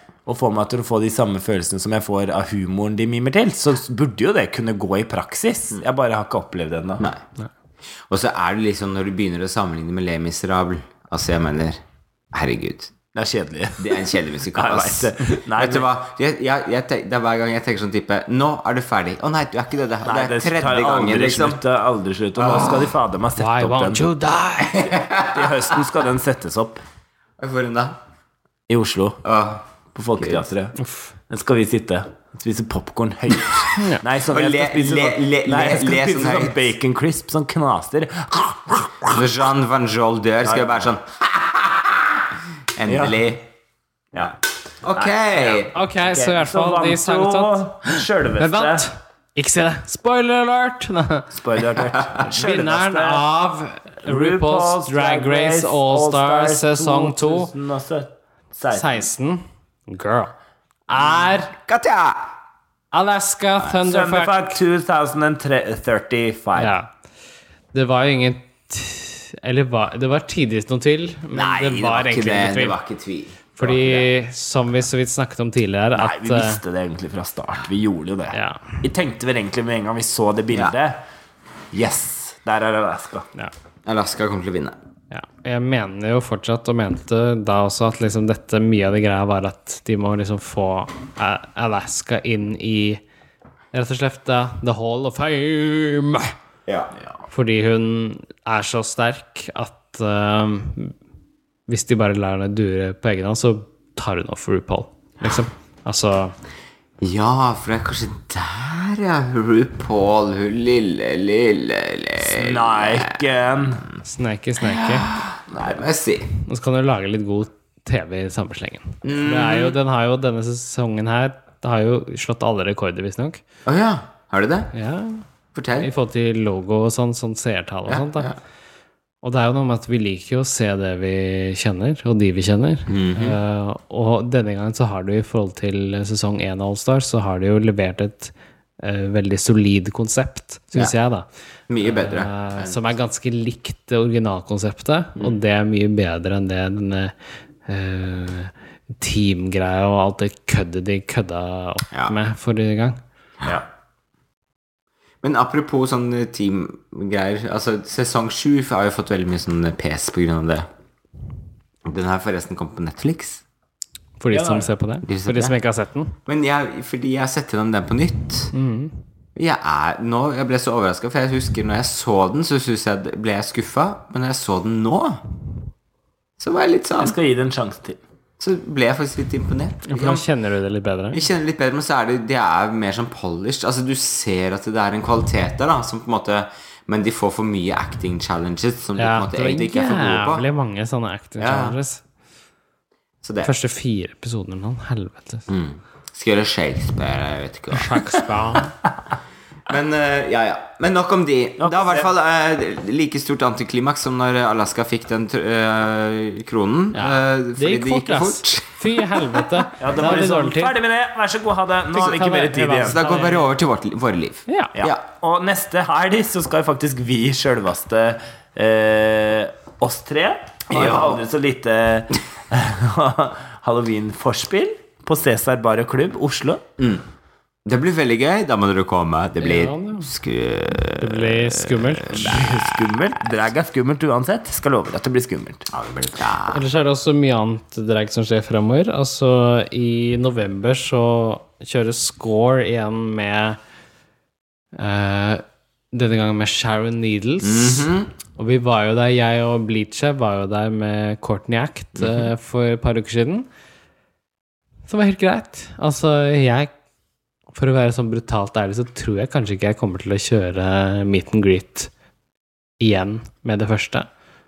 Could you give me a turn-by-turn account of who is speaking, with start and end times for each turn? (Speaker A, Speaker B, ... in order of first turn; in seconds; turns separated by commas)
Speaker A: 0.2-7.1, Speaker B: 7.0-7.2, Speaker B: 8.1-11.8, Speaker B: 12.3-12.9, Speaker A: 13.1-15.9, Speaker B: 13.8-21.6, Speaker A: 20.0-24.0, Speaker B: 22.4-22.9, Speaker C: 23.4-25.0, Speaker B: 24.7-25.5, Speaker A: 25.2-26.8, Speaker B: 27.4-27.9, Speaker A: 28.7-29.2, Speaker B: 29.2-29.6, Speaker A: 29.9-30.8, Speaker C: 30.8-31.1, Speaker A: 31.3-39.3, Speaker C: 33.8-34.0, Speaker B: 34.3-36.7, Speaker B: 39.1-42.2, Speaker A: 40.4-40.9, Speaker B: 42.8-43.5, Speaker A: 42.9-43.2, Speaker B: 44.8-45.7, Speaker A: 44.9-48.9, Speaker C: 45.7-51.3, Speaker A: 51.3-53.2, Speaker C: 52.3-57.5, Speaker A: 54.0-59.1, Speaker C: 58.7-60.3, Speaker C: 60.9-61.5, Speaker B: 61.6-62.3, Speaker C: 62.9-64.6, Speaker A: 63.8-66.7, Speaker C: 66.5-66.9, Speaker C: 67.7-72.8, Speaker B: 71.3-74.0, Speaker C: 73.5-76.6, Speaker A: 76.0-81.0, Speaker C: 78.3-78.8, Speaker A: 81.7-83.3, Speaker B: 83.8-84.8, Speaker C: 85.1-93.0, Speaker C: 93.7-96.3, Speaker B: 96.7-96.9, Speaker C: 97.3-100.9, Speaker C: 101.7-106.3, Speaker B: 107.0-113.2, Speaker A: 112.2-113.8, Speaker C: 114.0-115.1, Speaker B: 114.6-116.3, Speaker A: 115.5-115.8, Speaker C: 116.4-123.4, Speaker B: 119.0-119.8, Speaker B: 123.6-124.7, Speaker C: 124.7-125.2, Speaker B: 125.5-125.9, Speaker C: 125.8-128.3, Speaker B: 127.9-128.4, Speaker C: 129.2-141.3, Speaker B: 132.9-133.4, Speaker B: 141.7-142.8, Speaker C: 141.8-147.1, Speaker C: 147.6-153.0, Speaker B: 155.2-160.7, Speaker B: 161.8-163.4, Speaker C: 164.2-166.2, Speaker A: 164.3-164.7, Speaker B: 165.0-165.5, Speaker B: 166.2-168.5, Speaker C: 168.5-169.0, Speaker B: 169.3-175.2, Speaker B: 176.4-177.1, Speaker A: 177.0-178.0, Speaker B: 178.4-180.2, Speaker C: 179.9-181.2, Speaker B: 181.1-190.4, Speaker C: 189.0-192.0, Speaker B: 191.4-191.8, Speaker B: 193.2-193.5, Speaker C: 193.4-195.5, Speaker B: 195.5-198.2, Speaker C: 197.7-198.8, Speaker B: 199.7-209.7, Speaker A: 201.6-202.1, Speaker C: 206.9-210.8, Speaker A: 209.8-213.0, Speaker C: 211.9-213.5, Speaker B: 212.8-215.0, Speaker A: 214.7-226.6, Speaker B: 220.7-221.2, Speaker B: 226.8-227.0, Speaker B: 227.6-232.7, Speaker C: 229.4-230.1, Speaker C: 231.0-232.4, Speaker A: 232.1-235.7, Speaker B: 235.7-236.6, Speaker C: 236.5-243.6, Speaker C: 244.7-253.5, Speaker B: 247.4-248.1, Speaker B: 251.9-252.3, Speaker C: 254.9-256.7, Speaker C: 257.5-261.9, Speaker C: 262.8-264.1